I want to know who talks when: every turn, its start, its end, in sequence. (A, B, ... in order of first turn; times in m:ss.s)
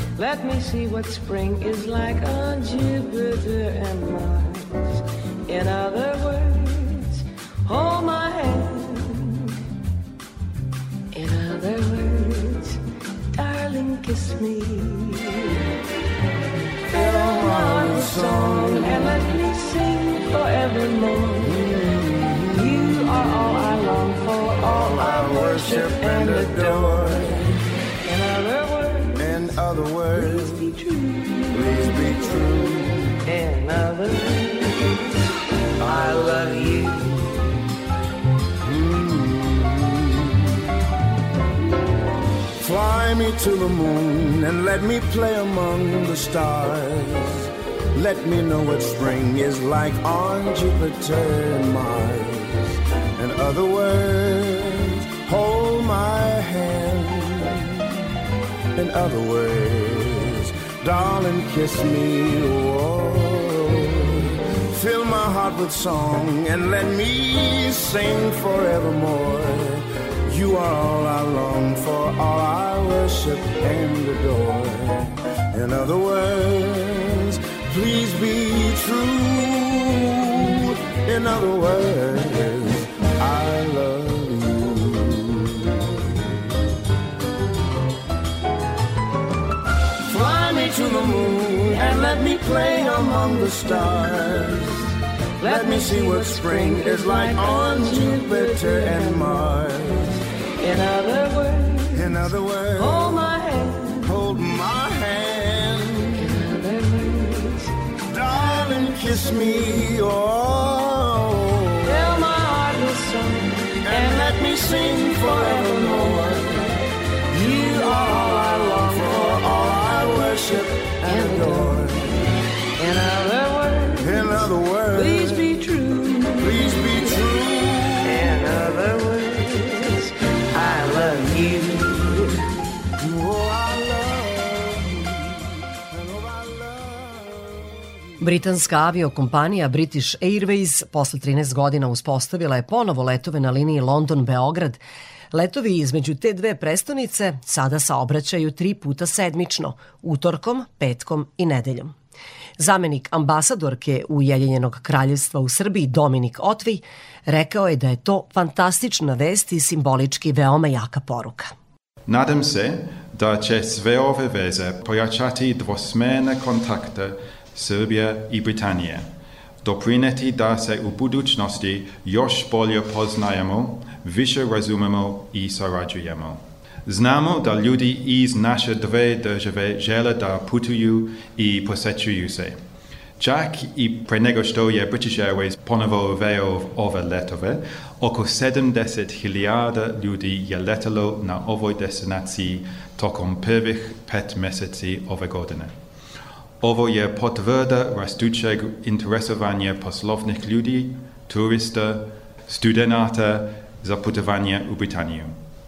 0:00.2-0:04.8 A
0:05.5-0:07.1 A
0:07.7-0:09.1 A
0:11.1-0:12.7 A
0:13.4-0:15.3 A
0:16.9-0:19.3 B
0:17.8-0:21.3 A
0:21.4-0:22.8 B
0:22.6-0:26.9 A
0:24.6-0:27.4 B
0:28.1-0:29.1 A
0:29.1-0:30.7 B
0:30.2-0:30.7 A
0:31.5-0:33.2 B
0:33.3-0:34.6 A
0:35.8-0:37.0 A
0:38.6-0:40.5 B
0:42.6-0:57.8 B
0:58.8-1:25.8 B
1:30.1-1:34.8 B
1:35.4-1:40.1 B
1:35.5-1:38.9 A
1:40.6-1:41.7 A
1:41.9-1:43.3 B
1:42.8-1:43.8 A
1:44.0-1:46.3 B
1:46.6-1:47.5 A
1:48.1-1:52.3 B
1:52.1-1:53.5 A
1:53.8-1:56.6 B
1:57.3-2:02.0 B
2:01.1-2:01.6 A
2:02.8-2:03.9 A
2:04.0-2:05.5 B
2:05.1-2:05.7 A
2:06.4-2:08.3 B
2:08.0-2:11.8 A
2:13.0-2:18.0 B
2:18.2-2:24.8 C
2:25.3-2:31.9 C
2:32.6-2:41.5 C
2:42.1-2:49.1 D
2:49.6-3:02.6 D
3:03.2-3:15.7 D
3:16.6-3:25.4 D